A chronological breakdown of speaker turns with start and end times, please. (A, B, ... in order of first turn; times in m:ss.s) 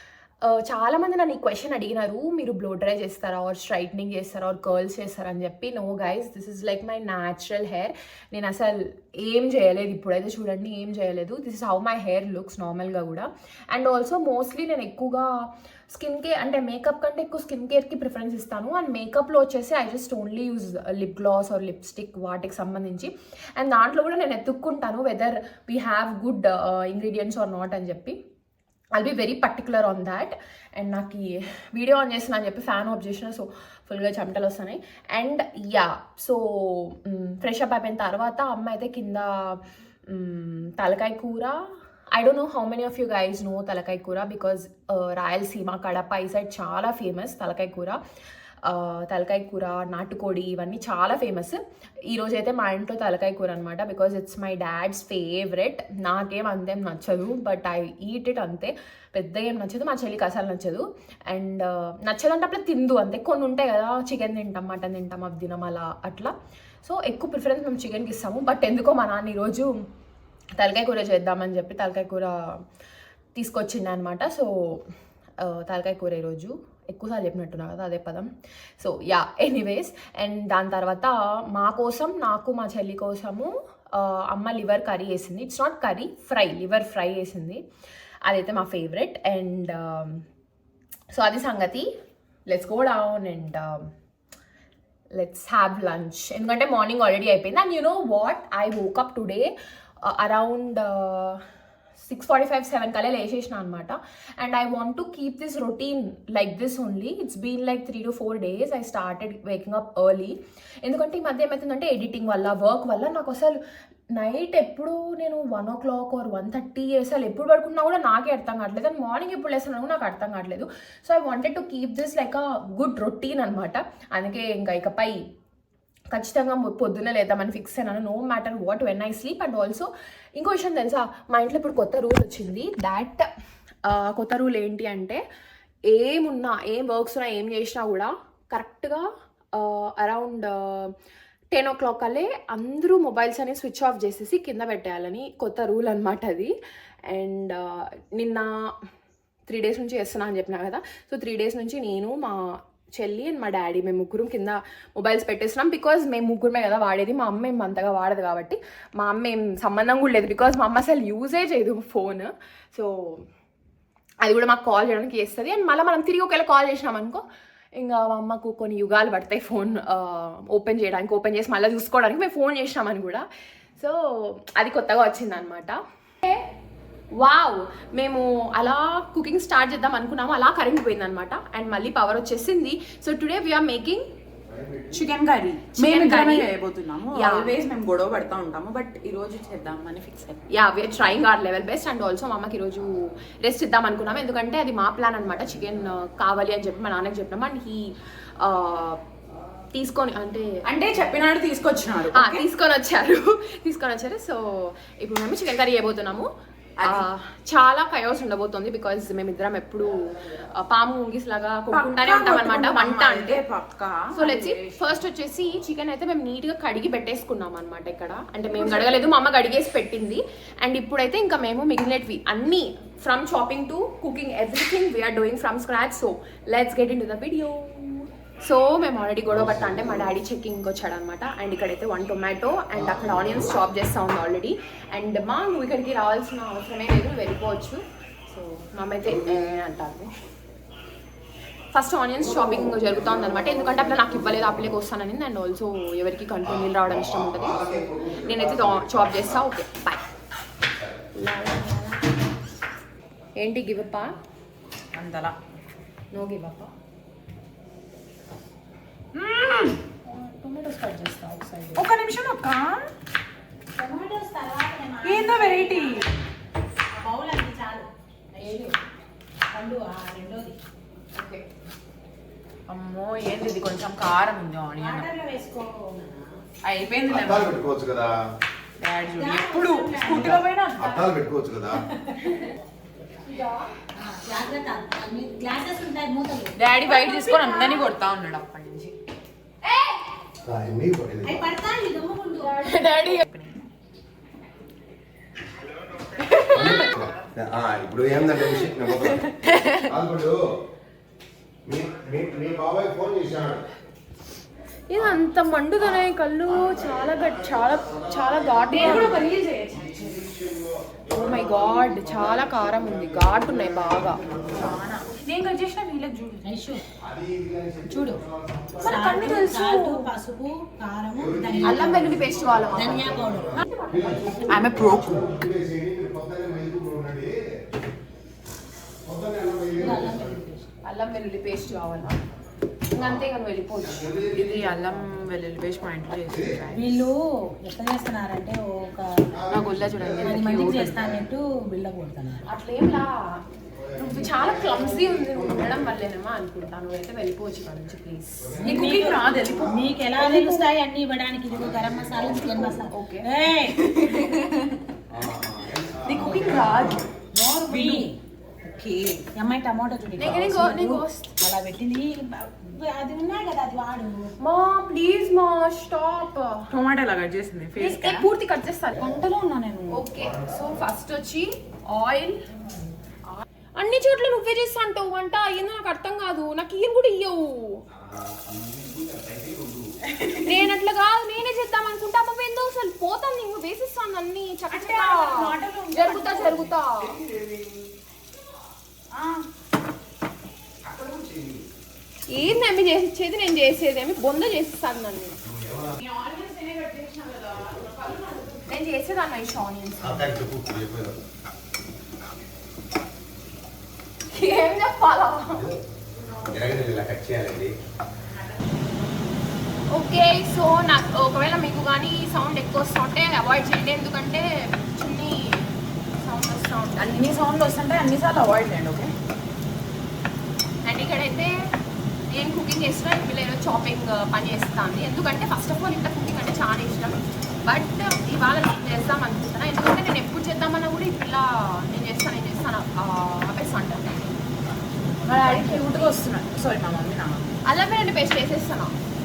0:00.4-0:28.2 A
0:29.0-0:48.0 A
0:48.6-1:09.7 A
1:10.6-1:12.6 A
1:13.4-1:27.6 A
1:28.2-1:30.2 A
1:31.1-1:31.9 A
1:32.5-1:33.9 A
1:35.1-1:39.5 A
1:40.0-1:41.4 A
1:42.0-1:53.6 A
1:54.2-2:05.2 A
2:06.1-2:13.3 A
2:13.8-2:15.2 A
2:15.9-2:20.9 A
2:21.5-2:26.6 A
2:27.1-2:28.7 A
2:29.5-2:43.3 A
2:44.2-2:47.2 A
2:47.8-2:53.3 A
2:53.8-2:56.4 A
2:57.2-3:04.0 A
3:04.5-3:05.0 B
3:04.9-3:10.5 C
3:05.8-3:06.5 A
3:07.1-3:07.5 A
3:10.5-3:19.0 A
3:19.7-3:20.5 A
3:20.6-3:22.4 C
3:22.1-3:26.3 A
3:26.8-3:27.1 C
3:26.8-3:33.4 A
3:31.7-3:35.0 C
3:34.1-4:00.1 A
3:38.6-3:38.9 C
3:49.3-3:50.1 B
3:52.8-3:53.5 B
4:01.7-4:10.0 A
4:02.4-4:04.7 B
4:06.4-4:09.4 B
4:10.8-4:11.0 B
4:11.2-4:12.1 A
4:13.4-4:14.2 A
4:14.9-4:15.4 C
4:16.1-4:16.7 A
4:19.1-4:19.8 C
4:20.0-4:21.9 A
4:21.8-4:22.9 C
4:23.8-4:26.2 D
4:25.0-4:26.1 C
4:26.9-4:28.8 D
4:29.5-4:30.6 D
4:31.1-4:31.5 A
4:32.7-4:35.1 C
4:34.8-4:36.4 D
4:36.6-4:37.6 C
4:37.1-4:38.2 B
4:38.8-4:41.1 C
4:39.1-4:40.4 D
4:40.8-4:41.8 B
4:41.9-4:42.5 D
4:43.2-4:43.7 A
4:44.0-4:47.6 D
4:46.6-4:48.9 C
4:47.0-4:47.8 A
4:49.7-4:50.0 A
4:50.4-4:51.5 B
4:51.2-4:53.0 D
4:52.4-4:53.5 A
4:56.1-4:57.0 A
4:56.5-5:00.4 B
4:58.6-4:59.9 A
5:01.7-5:03.7 B
5:04.9-5:09.2 A
5:06.5-5:14.7 B
5:08.7-5:10.3 C
5:11.1-5:14.2 A
5:14.5-5:16.7 C
5:16.4-5:16.8 D
5:17.0-5:18.8 B
5:17.8-5:18.2 D
5:18.8-5:20.1 C
5:18.8-5:23.6 D
5:18.9-5:19.6 A
5:21.2-5:27.5 B
5:21.6-5:24.7 A
5:24.5-5:25.5 C
5:29.0-5:30.4 B
5:29.7-5:30.7 D
5:30.8-5:32.2 A
5:32.9-5:34.5 A
5:33.0-5:33.2 B
5:33.8-5:34.8 B
5:34.3-5:36.9 C
5:36.3-5:36.6 B
5:36.7-5:39.4 D
5:39.3-5:41.2 B
5:39.5-5:41.1 C
5:40.1-5:42.4 D
5:42.4-5:43.4 A
5:43.9-5:48.9 A
5:44.0-5:45.8 B
5:48.4-5:49.8 B
5:48.6-5:53.8 D
5:48.6-5:49.8 C
5:50.2-5:50.7 A
5:51.5-5:52.8 B
5:52.8-5:53.3 A
5:53.8-5:54.8 C
5:55.1-5:57.1 B
5:56.0-5:57.1 C
5:57.3-5:58.2 D
5:57.7-5:58.1 C
5:58.8-5:59.2 C
5:59.3-6:04.3 D
6:00.2-6:01.3 A
6:04.4-6:06.7 A
6:06.7-6:08.3 C
6:07.8-6:09.1 A
6:09.0-6:10.1 C
6:09.9-6:12.4 A
6:13.8-6:17.8 A
6:17.9-6:19.9 B
6:20.2-6:20.7 C
6:20.4-6:27.2 A
6:24.7-6:26.7 C
6:27.1-6:27.9 B
6:29.1-6:29.4 C
6:30.8-6:31.7 B
6:32.3-6:35.4 A
6:35.4-6:36.0 B
6:36.0-6:38.7 C
6:38.7-6:40.4 A
6:40.0-6:41.2 B
6:44.3-6:45.7 A
6:45.5-6:45.8 B
6:46.2-6:46.6 C
6:46.4-6:47.7 B
6:49.9-6:57.3 A
6:57.0-6:59.1 C
7:00.8-7:01.6 A
7:02.3-7:14.2 A
7:15.2-7:16.2 A
7:15.3-7:17.5 C
7:17.7-7:18.9 A